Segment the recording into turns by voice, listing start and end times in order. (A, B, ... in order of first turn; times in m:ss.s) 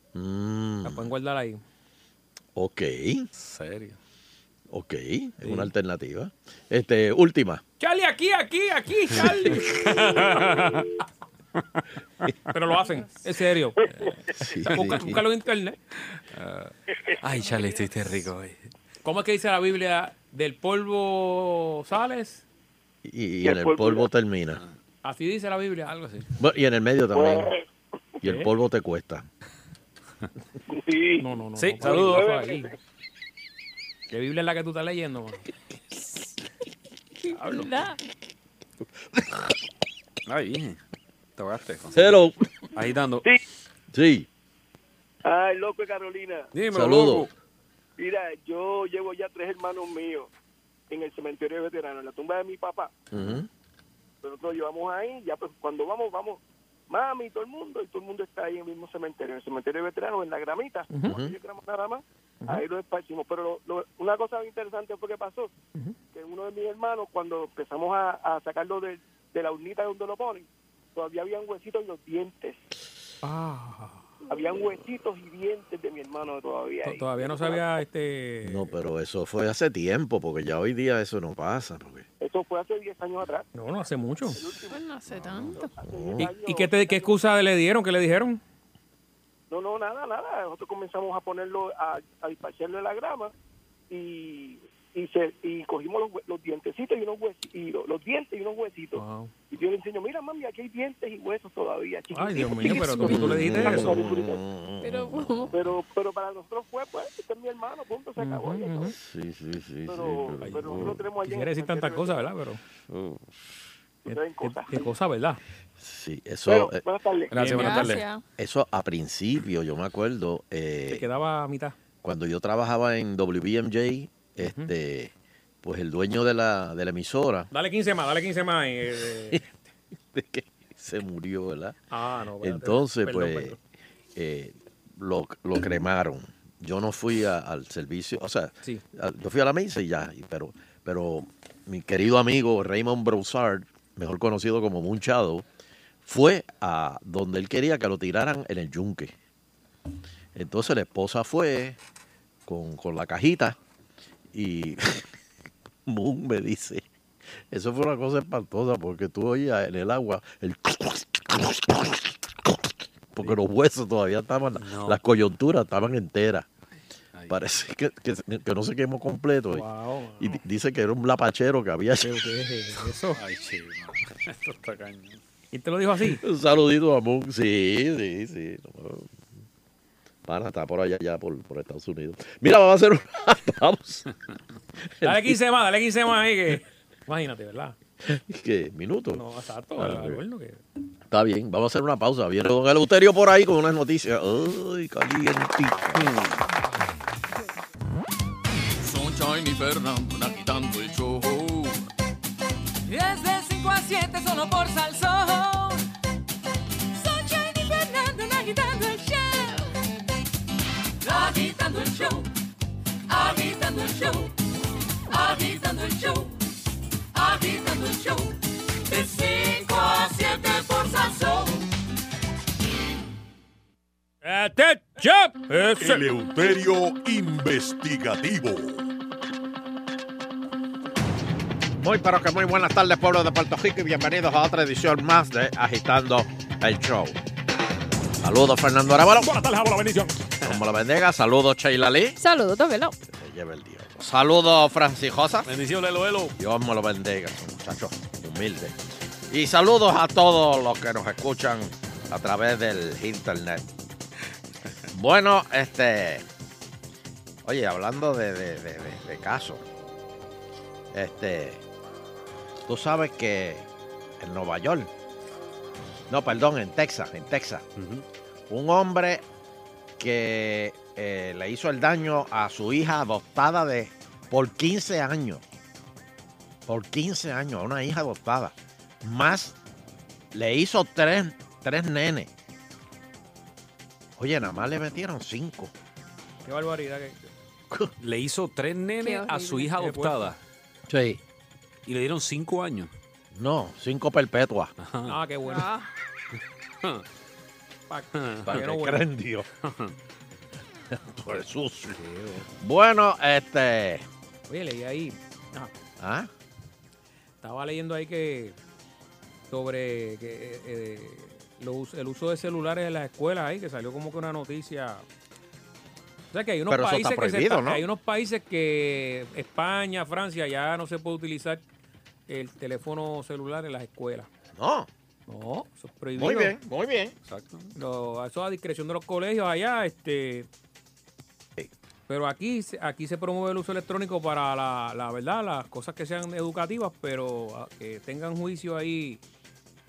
0:00.1-0:01.1 A
0:00.8-0:01.6 B
0:02.6-0:03.3 A
0:03.4-0:04.0 C
0:04.7-0:07.6 A
0:07.8-0:10.8 B
0:09.6-0:10.9 C
0:12.5-0:14.0 B
0:14.4-0:15.2 A
0:14.7-0:15.1 C
0:14.7-0:15.8 B
0:16.3-0:18.7 C
0:19.0-0:22.4 B
0:23.0-0:24.6 A
0:23.4-0:24.1 D
0:25.0-0:26.0 B
0:25.9-0:26.3 C
0:26.4-0:27.5 A
0:27.1-0:27.6 D
0:28.2-0:29.3 A
0:28.2-0:28.5 B
0:30.7-0:31.2 D
0:31.2-0:32.7 B
0:31.6-0:32.3 C
0:31.8-0:32.6 D
0:34.1-0:35.4 B
0:36.0-0:36.3 E
0:37.3-0:38.0 E
0:37.4-0:37.7 B
0:40.3-0:40.8 C
0:41.4-0:42.2 C
0:41.9-0:42.4 A
0:42.8-0:43.2 C
0:43.9-0:44.3 A
0:45.2-0:46.5 D
0:46.5-0:47.3 C
0:46.7-0:47.3 A
0:48.0-0:50.3 D
0:50.9-0:52.9 D
0:53.1-0:53.5 A
0:54.2-1:05.5 D
1:00.9-1:01.2 B
1:01.1-1:01.4 A
1:06.1-1:12.6 D
1:13.2-1:14.0 B
1:14.3-1:17.8 D
1:16.8-1:18.7 B
1:18.4-1:22.0 A
1:22.2-1:23.5 D
1:23.6-1:24.4 B
1:24.3-1:24.8 D
1:24.7-1:25.7 E
1:25.5-1:27.2 D
1:25.9-1:26.3 A
1:26.2-1:28.4 B
1:29.5-1:33.3 D
1:33.9-1:44.4 D
1:39.0-1:39.3 B
1:42.1-1:44.0 B
1:42.4-1:43.4 E
1:43.1-1:45.4 A
1:44.8-1:45.6 E
1:45.5-1:49.0 D
1:48.2-1:48.9 B
1:49.0-1:51.0 A
1:49.9-1:52.2 D
1:50.4-1:52.6 B
1:52.9-1:53.2 A
1:54.1-1:54.9 D
1:54.1-1:55.4 B
1:55.8-1:56.8 A
1:56.5-1:57.4 D
1:57.3-1:58.0 C
1:57.4-1:57.8 B
1:57.5-1:58.2 E
1:58.4-2:01.0 A
2:00.9-2:01.8 B
2:02.0-2:05.1 A
2:04.4-2:04.7 B
2:05.6-2:07.5 A
2:07.5-2:09.5 B
2:10.1-2:11.8 A
2:11.9-2:13.6 B
2:12.4-2:13.6 A
2:14.2-2:25.4 A
2:26.0-2:29.1 A
2:30.4-2:31.8 A
2:32.5-2:33.6 A
2:34.3-2:35.1 A
2:35.9-2:36.8 A
2:37.5-2:46.5 A
2:44.6-2:45.0 C
2:47.3-2:49.6 A
2:49.5-2:50.4 B
2:50.2-2:52.2 A
2:52.0-2:53.2 B
2:53.2-2:55.2 C
2:55.5-2:56.2 B
2:56.1-2:59.2 A
3:00.3-3:04.1 A
3:04.8-3:05.4 A
3:05.0-3:07.8 B
3:08.0-3:09.2 A
3:09.1-3:10.6 B
3:09.8-3:10.2 A
3:11.1-3:16.2 A
3:16.0-3:16.4 C
3:18.9-3:21.7 F
3:22.9-3:25.9 G
3:27.0-3:29.7 G
3:31.0-3:32.3 G
3:33.1-3:34.3 G
3:35.1-3:36.3 G
3:37.2-3:38.4 G
3:38.9-3:41.6 G
3:44.2-3:46.1 B
3:45.8-3:48.9 H
3:51.8-3:57.2 A
3:58.2-3:59.3 A
3:59.2-4:00.2 B
4:00.4-4:02.2 A
4:02.2-4:03.0 E
4:03.1-4:05.5 A
4:05.5-4:06.4 C
4:06.4-4:13.6 A
4:14.9-4:16.2 A
4:17.4-4:19.6 A
4:20.9-4:21.6 A
4:22.7-4:23.7 A
4:24.2-4:24.9 A
4:26.1-4:27.6 A
4:27.8-4:28.0 C
4:28.5-4:29.2 A
4:30.0-4:35.4 A
4:36.7-4:39.6 A
4:40.3-4:42.3 A
4:44.2-4:45.7 A
4:46.4-4:47.3 B
4:48.0-4:50.4 C
4:49.0-4:49.7 E
4:49.6-4:50.4 B
4:50.9-4:51.2 A
4:51.9-4:52.9 C
4:53.3-4:54.7 A
4:54.8-4:55.2 C
4:55.1-4:55.7 B
4:55.4-4:55.9 E
4:57.9-4:59.0 B
4:58.2-4:58.6 C
4:58.5-4:59.5 A
4:59.6-4:59.9 C
5:00.9-5:02.0 A
5:01.9-5:02.5 C
5:02.6-5:04.1 A
5:04.5-5:05.7 B
5:06.0-5:06.3 A
5:07.4-5:08.6 B
5:09.5-5:15.0 B
5:16.3-5:21.6 B
5:16.7-5:17.8 A
5:22.3-5:24.3 B
5:24.6-5:24.9 A
5:25.3-5:26.6 B
5:26.2-5:27.2 A
5:27.3-5:27.7 C
5:27.8-5:30.5 B
5:32.1-5:39.2 B